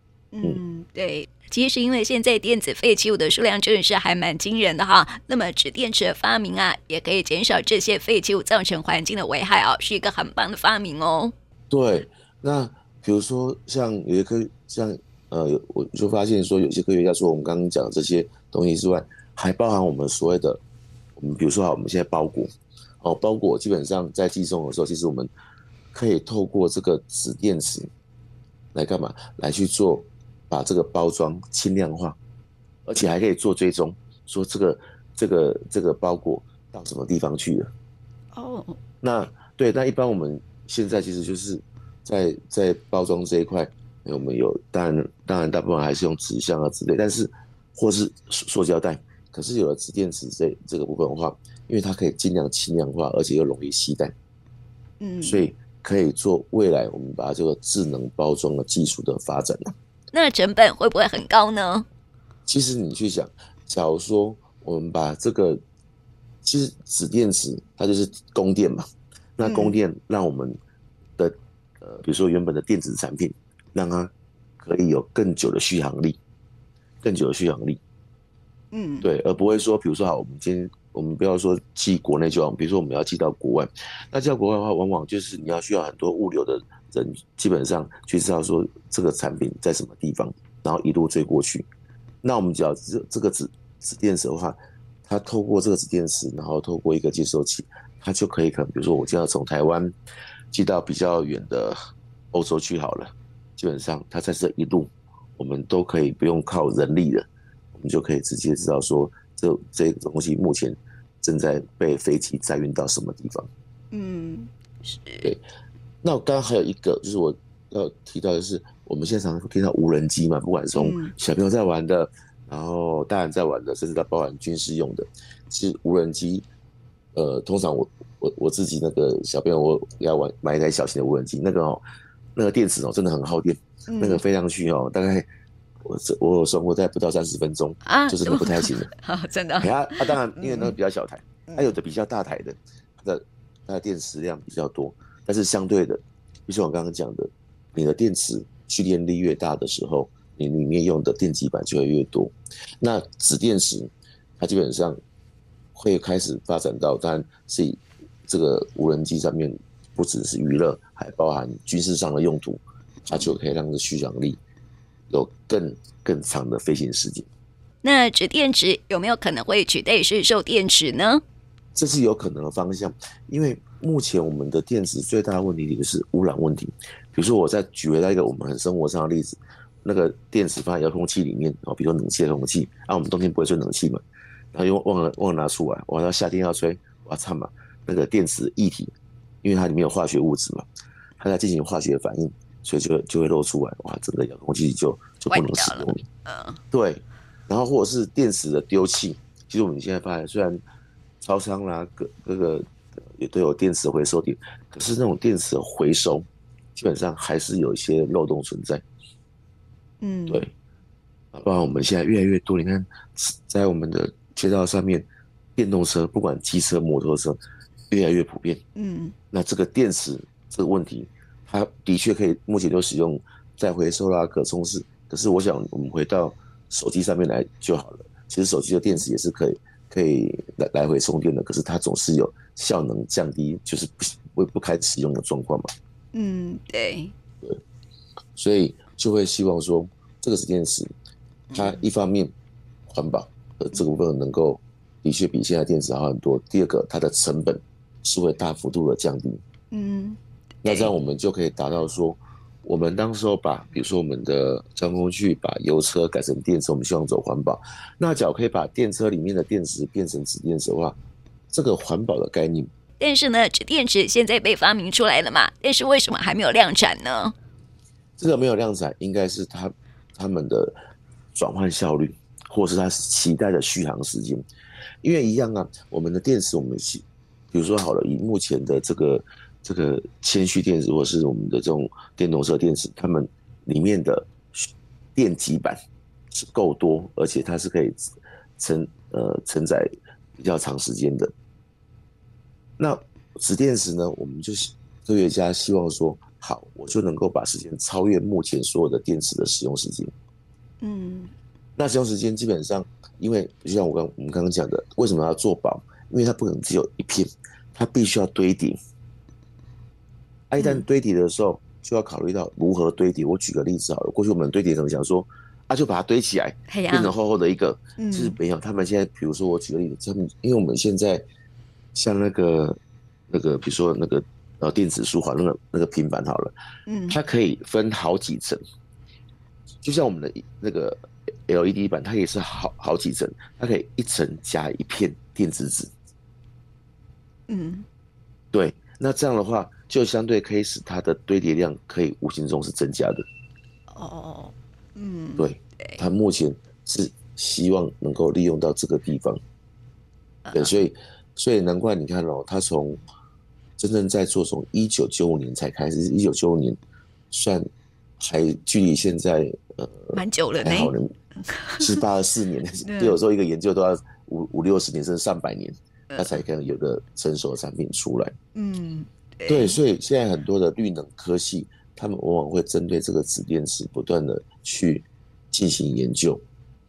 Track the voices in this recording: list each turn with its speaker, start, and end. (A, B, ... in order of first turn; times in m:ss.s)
0:00.3-0:11.3 A
0:11.7-0:20.6 B
0:21.2-0:25.3 B
0:25.9-0:27.9 B
0:28.7-0:32.2 B
0:32.8-0:37.7 B
0:38.3-0:38.8 A
0:39.0-0:54.1 B
0:55.0-0:55.4 A
0:55.2-0:59.7 B
1:00.1-1:01.8 A
1:02.5-1:05.6 B
1:06.4-1:08.8 B
1:09.4-1:10.6 B
1:09.4-1:09.8 A
1:11.2-1:16.2 B
1:17.0-1:17.8 B
1:18.7-1:19.1 A
1:19.0-1:31.6 B
1:32.2-1:39.9 B
1:40.5-1:41.8 B
1:42.3-1:53.5 B
1:53.9-1:55.3 A
1:56.0-2:06.5 B
2:00.7-2:01.1 A
2:07.1-2:11.8 B
2:12.3-2:15.2 B
2:13.9-2:14.2 A
2:15.8-2:18.9 B
2:17.8-2:20.7 A
2:19.6-2:35.0 B
2:35.7-2:44.4 B
2:43.1-2:43.3 A
2:45.1-2:47.3 B
2:47.8-2:51.2 A
2:51.7-3:04.0 B
3:04.5-3:08.9 B
3:09.4-3:10.6 B
3:11.2-3:16.0 B
3:15.3-3:16.6 A
3:16.7-3:20.6 B
3:21.2-3:28.8 B
3:30.0-3:30.4 A
3:31.3-3:37.4 B
3:37.9-3:38.6 B
3:38.8-3:39.1 A
3:39.3-3:55.7 B
3:56.1-3:57.1 A
3:58.4-4:00.9 B
4:01.5-4:01.8 A
4:01.5-4:02.3 B
4:02.9-4:09.4 B
4:09.7-4:10.9 A
4:10.6-4:21.0 B
4:21.5-4:22.7 B
4:23.0-4:27.3 A
4:28.2-4:30.7 B
4:31.3-4:34.4 B
4:35.0-4:45.8 B
4:46.3-4:51.3 B
4:52.8-5:00.1 B
5:00.8-5:01.3 A
5:01.8-5:08.8 B
5:10.5-5:21.2 B
5:10.6-5:10.8 A
5:16.7-5:17.1 A
5:18.0-5:18.4 A
5:21.9-5:22.8 B
5:23.3-5:26.5 B
5:26.9-5:27.2 A
5:27.1-5:28.6 B
5:29.8-5:35.9 B
5:37.5-5:37.8 A
5:38.5-5:43.2 B
5:43.9-5:46.0 A
5:45.4-5:49.4 B
5:50.4-5:50.8 A
5:50.5-5:53.0 B
5:53.8-5:56.8 B
5:57.3-5:57.6 B
5:58.2-6:01.1 B
6:00.1-6:00.9 A
6:01.4-6:02.0 A
6:01.8-6:08.3 B
6:02.8-6:03.2 A
6:06.1-6:06.4 A
6:08.5-6:09.8 A
6:09.5-6:16.4 B